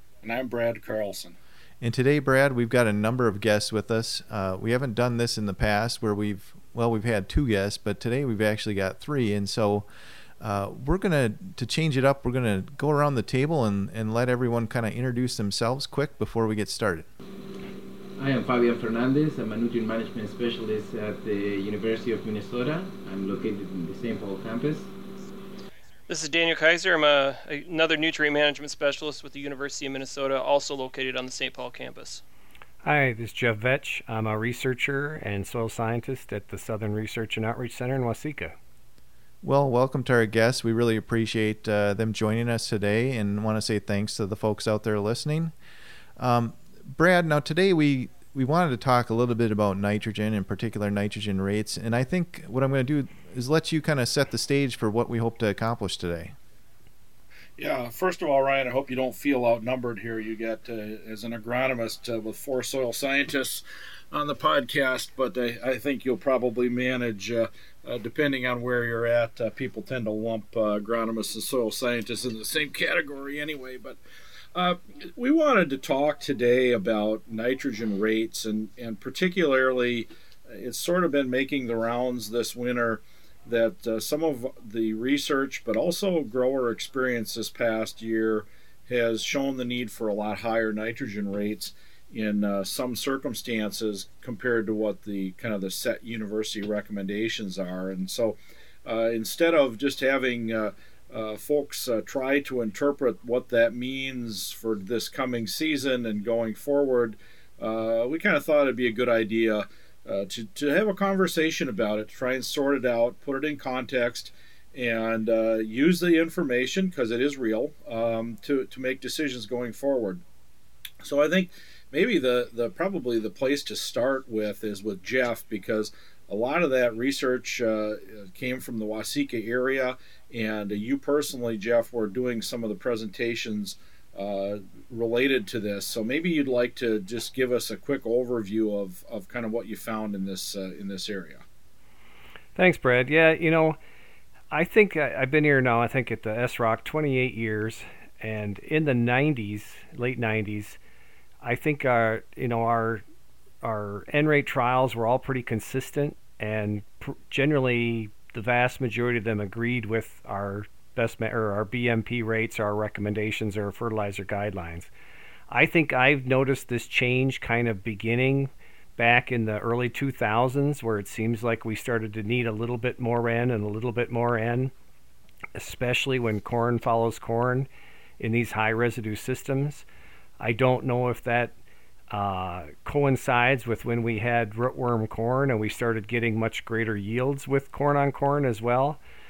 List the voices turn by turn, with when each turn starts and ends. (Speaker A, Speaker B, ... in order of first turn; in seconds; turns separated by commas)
Speaker A: 0.2-1.4, Speaker B: 1.8-9.8, Speaker B: 10.4-17.1, Speaker C: 18.1-24.9, Speaker D: 26.1-32.2, Speaker E: 32.8-38.5, Speaker B: 39.4-45.5, Speaker B: 46.2-56.4, Speaker A: 57.6-74.0, Speaker A: 74.5-120.2, Speaker A: 121.0-141.4, Speaker E: 142.5-143.8, Speaker E: 144.5-150.8, Speaker E: 151.4-153.0, Speaker E: 153.6-164.9, Speaker E: 165.5-174.7, Speaker E: 175.5-177.7, Speaker E: 178.2-179.8, Speaker E: 180.4-181.5, Speaker E: 182.1-189.0